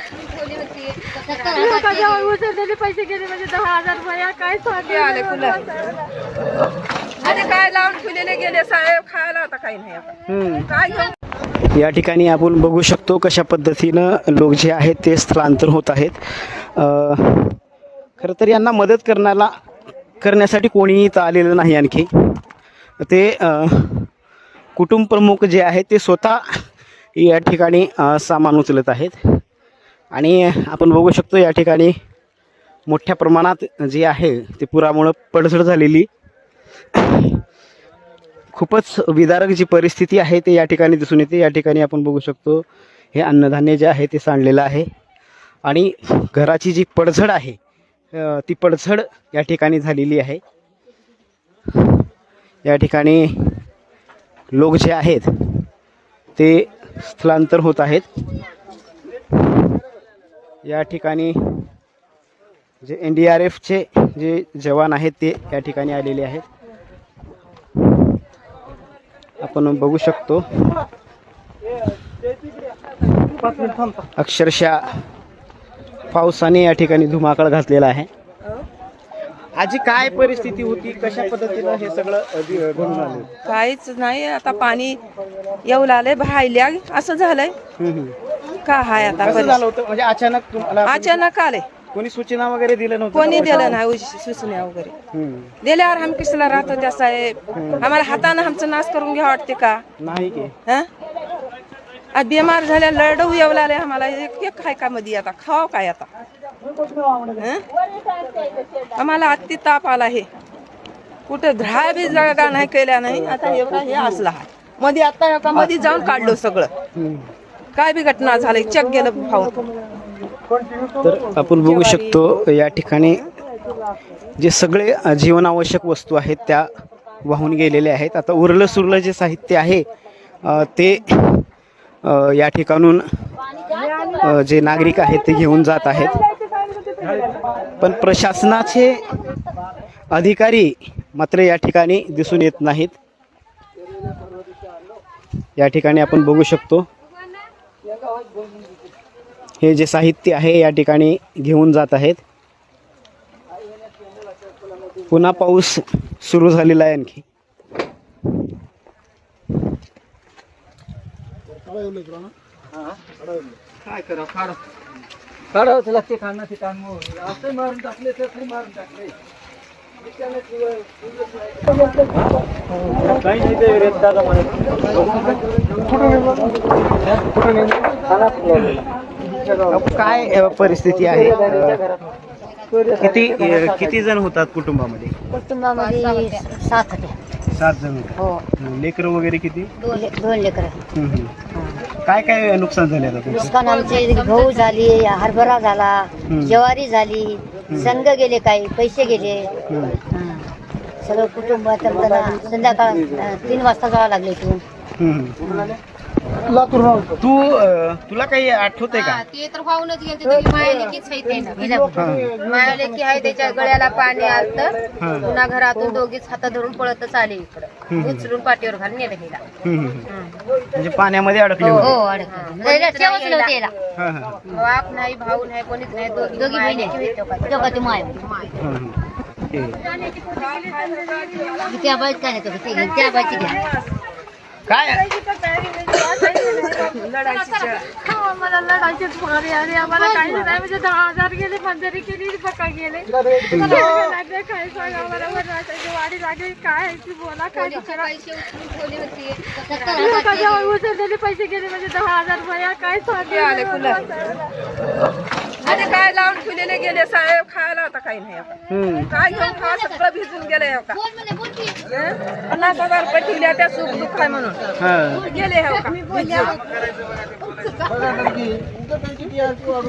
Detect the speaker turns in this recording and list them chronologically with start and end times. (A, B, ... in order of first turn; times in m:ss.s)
0:00.3-0:02.3 A
0:01.4-0:06.0 B
0:04.8-0:05.6 C
0:07.2-0:10.2 C
0:10.3-0:10.7 D
0:10.7-0:11.2 C
0:11.6-0:17.6 D
0:18.2-0:19.5 D
0:20.2-0:22.4 D
0:23.0-0:24.1 D
0:24.8-0:26.6 D
0:27.2-0:29.4 D
0:30.1-0:32.0 D
0:32.9-0:36.1 D
0:36.9-0:37.4 D
0:38.5-0:44.9 D
0:45.6-0:47.6 D
0:48.1-0:50.4 D
0:51.7-0:52.0 D
0:52.6-0:53.7 D
0:54.5-0:55.7 D
0:56.4-0:58.1 D
1:00.6-1:01.7 D
1:02.8-1:06.4 D
1:09.4-1:10.8 D
1:14.2-1:14.9 D
1:16.1-1:18.1 D
1:19.6-1:23.4 D
1:23.4-1:25.0 C
1:25.6-1:27.6 C
1:27.8-1:28.2 D
1:28.6-1:29.6 C
1:29.2-1:31.2 D
1:30.8-1:31.7 C
1:31.9-1:33.8 D
1:33.1-1:35.0 C
1:35.1-1:35.5 D
1:35.6-1:39.8 C
1:37.5-1:37.9 D
1:40.0-1:40.6 D
1:42.1-1:46.1 C
1:47.4-1:47.6 C
1:49.0-1:50.3 C
1:51.3-1:56.7 C
1:57.0-1:57.3 D
1:57.8-1:59.6 C
2:01.0-2:03.3 D
2:01.6-2:02.2 C
2:04.4-2:06.7 D
2:07.2-2:09.9 D
2:10.4-2:11.5 D
2:12.0-2:13.4 D
2:14.2-2:16.2 D
2:16.4-2:17.4 B
2:17.8-2:19.1 D
2:20.1-2:22.9 D
2:25.6-2:26.9 D
2:29.6-2:32.2 D
2:35.1-2:37.2 D
2:53.4-2:54.1 D
2:59.7-3:01.8 D
3:02.8-3:05.2 D
3:05.3-3:07.2 A
3:05.7-3:06.5 E
3:07.5-3:09.7 D
3:08.2-3:08.4 A
3:09.8-3:10.1 E
3:09.9-3:10.8 A
3:10.9-3:11.4 D
3:11.5-3:11.8 A
3:12.0-3:13.5 D
3:13.3-3:14.9 E
3:13.4-3:19.5 A
3:16.3-3:16.6 D
3:17.7-3:18.0 D
3:19.7-3:20.0 D
3:20.1-3:20.5 A
3:21.0-3:24.6 A
3:25.0-3:25.4 D
3:25.4-3:25.8 A
3:26.9-3:29.2 D
3:28.9-3:39.4 E
3:31.6-3:32.2 A
3:31.9-3:32.4 D
3:35.0-3:35.4 D
3:37.9-3:38.3 D
3:39.6-3:40.1 D
3:40.1-3:40.4 E
3:40.8-3:42.0 D
3:41.6-3:43.7 A
3:41.9-3:43.6 E
3:44.0-3:44.4 D
3:44.5-3:48.5 E
3:46.3-3:48.2 A
3:48.6-3:49.8 D
3:49.8-3:51.7 B
3:50.4-3:51.8 C
3:51.6-3:53.6 A
3:52.7-3:53.9 C
3:53.1-3:53.6 B
3:54.7-3:55.0 D
3:55.1-3:56.9 B
3:56.4-3:57.9 C
3:57.7-4:08.1 B
4:03.5-4:03.9 D
4:07.6-4:10.7 A
4:09.8-4:14.5 B
4:13.2-4:14.1 C
4:15.6-4:18.6 C
4:18.7-4:19.1 D
4:19.1-4:24.6 C
4:24.8-4:25.3 D
4:25.2-4:26.7 C
4:27.4-4:28.4 C